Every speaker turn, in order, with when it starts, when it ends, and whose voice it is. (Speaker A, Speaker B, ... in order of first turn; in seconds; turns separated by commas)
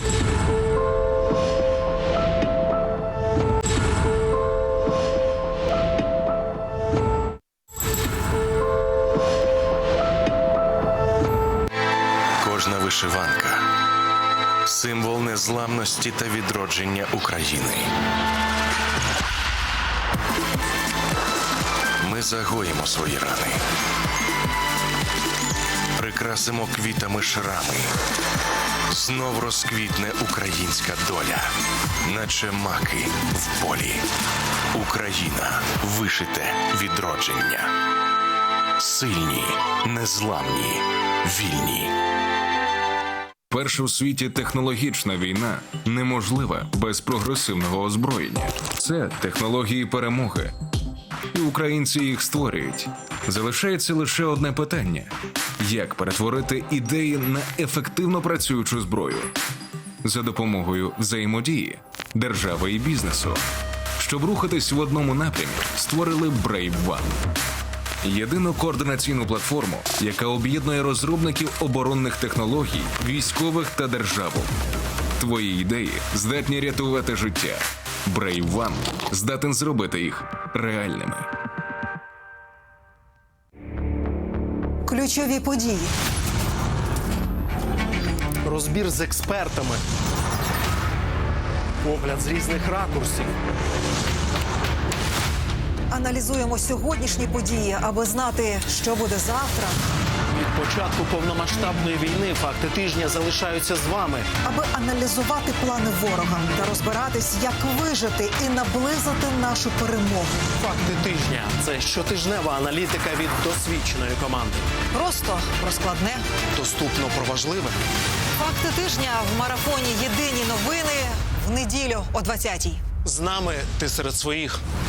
Speaker A: 12.4-13.7, Speaker A: 14.7-17.9, Speaker A: 22.0-23.6, Speaker A: 26.0-27.9, Speaker A: 28.9-31.5, Speaker A: 32.0-34.0, Speaker A: 34.7-37.7, Speaker A: 38.8-41.9, Speaker B: 43.5-50.5, Speaker B: 51.3-59.3, Speaker B: 60.0-63.4, Speaker B: 64.0-67.2, Speaker B: 68.0-74.5, Speaker B: 75.2-81.3, Speaker C: 84.8-85.9, Speaker D: 88.4-89.8, Speaker D: 91.8-93.3, Speaker C: 95.9-99.8, Speaker D: 100.3-104.3, Speaker C: 104.4-110.5, Speaker D: 110.6-114.7, Speaker C: 114.9-116.2, Speaker D: 116.5-117.8, Speaker C: 118.4-122.9, Speaker D: 123.0-124.6